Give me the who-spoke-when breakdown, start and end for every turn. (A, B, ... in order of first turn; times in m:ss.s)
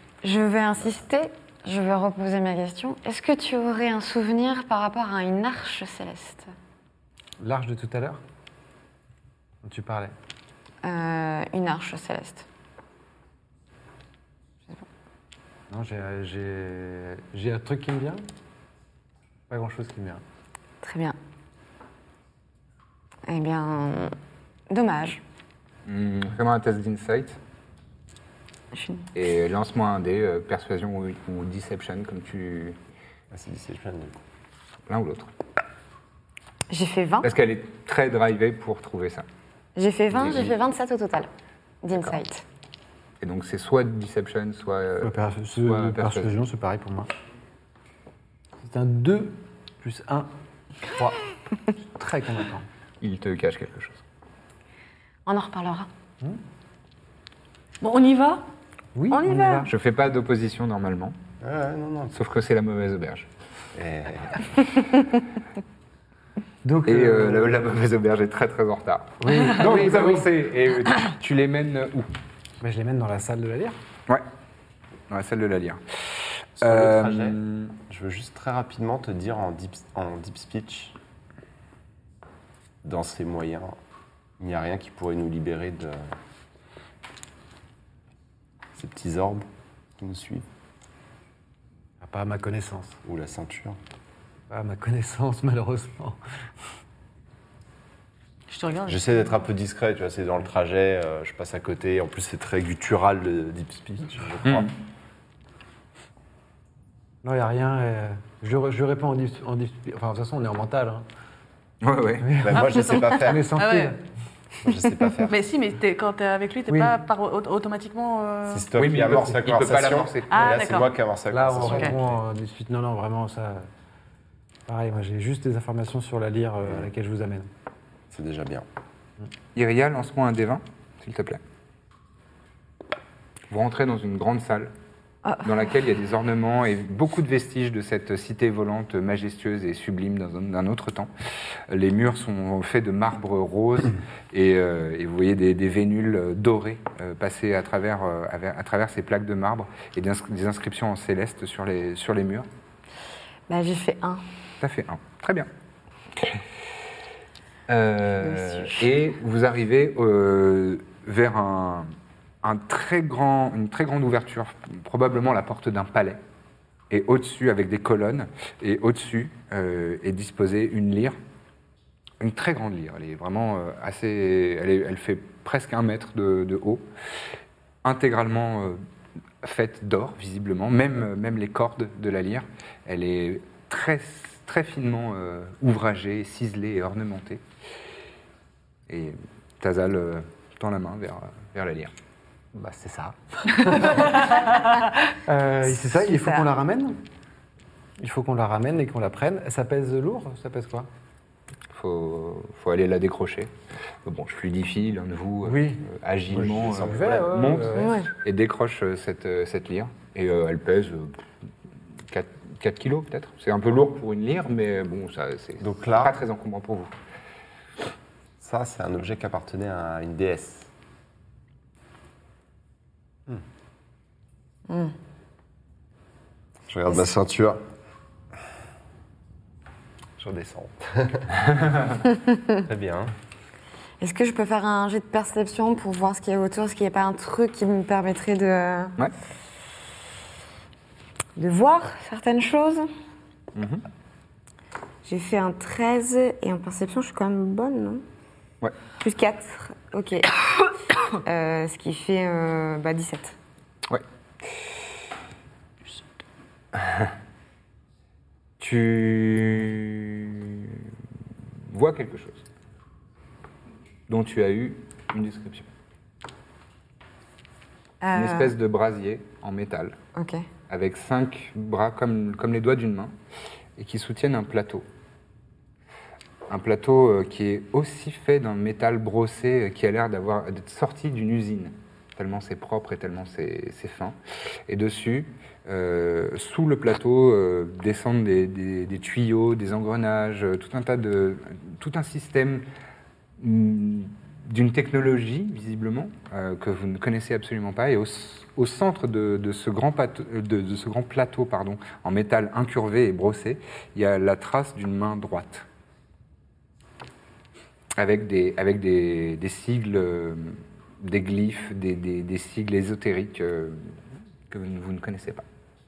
0:00.2-0:06.5 A
0:07.4-0:08.2 B
0:09.6-0:10.1 B
0:10.8-0:12.5 A
0:15.7-0:18.2 B
0:19.5-0:20.2 B
0:20.8-0:21.2 A
0:23.3-0:24.1 A
0:24.7-0:25.2 A
0:25.9-0:27.4 C
0:28.7-0:29.1 A
0:29.2-0:32.8 C
0:33.3-0:34.2 D
0:34.9-0:35.3 C
0:36.7-0:37.3 A
0:37.2-0:39.3 C
0:39.8-0:41.3 A
0:40.2-0:40.5 C
0:41.8-0:42.4 A
0:43.2-0:46.3 C
0:45.0-0:47.1 B
0:48.6-0:50.3 B
0:50.9-0:51.2 B
0:52.0-0:52.7 B
0:53.0-0:54.0 C
0:55.3-0:55.9 A
0:57.8-0:58.4 E
0:59.0-0:59.7 B
0:59.1-0:59.7 A
0:59.7-1:01.2 C
1:01.4-1:02.2 D
1:02.1-1:03.3 C
1:03.8-1:04.5 D
1:06.6-1:07.7 B
1:06.9-1:12.1 C
1:09.2-1:10.3 B
1:12.6-1:13.8 B
1:15.1-1:17.8 C
1:16.6-1:21.0 D
1:22.8-1:23.8 D
1:24.4-1:26.1 D
1:28.8-1:30.5 D
1:32.0-1:33.0 B
1:33.0-1:33.8 D
1:34.5-1:36.2 B
1:38.5-1:39.2 E
1:38.9-1:44.7 D
1:44.4-1:44.7 C
1:47.2-1:51.0 B
1:51.8-1:52.6 C
1:52.2-1:54.0 B
1:52.4-1:53.5 D
1:53.6-1:54.0 E
1:54.6-1:55.4 D
1:55.3-1:58.7 E
1:56.7-1:57.0 B
1:58.5-2:02.2 D
1:58.8-2:00.6 C
2:00.3-2:00.9 E
2:01.3-2:03.7 B
2:01.7-2:01.9 E
2:04.7-2:07.5 B
2:08.1-2:08.7 D
2:09.6-2:11.4 C
2:13.5-2:14.7 C
2:15.2-2:15.6 A
2:15.4-2:21.1 C
2:21.7-2:32.5 C
2:33.5-2:34.2 A
2:34.6-2:35.5 C
2:37.7-2:41.9 C
2:38.2-2:38.9 A
2:42.4-2:46.2 C
2:46.9-2:51.2 C
2:52.2-2:56.9 C
2:57.8-2:58.8 C
2:59.4-3:07.4 C
3:08.9-3:11.9 C
3:12.6-3:14.4 B
3:15.3-3:17.0 B
3:15.6-3:16.5 A
3:18.0-3:20.9 B
3:21.7-3:23.5 C
3:24.0-3:31.2 C
3:25.4-3:25.8 B
3:26.3-3:27.2 D
3:26.5-3:28.0 B
3:27.8-3:28.1 A
3:32.1-3:36.9 C
3:35.6-3:36.2 D
3:38.4-3:40.7 D
3:44.7-3:44.9 A
3:46.7-3:47.6 D
3:50.2-3:51.4 D
3:51.6-3:51.9 C
3:52.1-3:52.6 A
3:52.6-3:53.1 D
3:54.0-3:59.0 A
4:01.4-4:02.9 A
4:03.6-4:03.8 C
4:05.0-4:08.0 A
4:09.0-4:13.4 A
4:16.8-4:17.1 C
4:18.6-4:20.9 C
4:21.7-4:22.4 C
4:24.1-4:25.7 C
4:28.0-4:28.6 A
4:28.1-4:30.0 C
4:30.2-4:30.5 A
4:30.7-4:33.1 C
4:33.8-4:34.9 C
4:36.5-4:52.6 C
4:53.4-5:05.7 C
5:08.0-5:13.9 C
5:14.5-5:15.4 C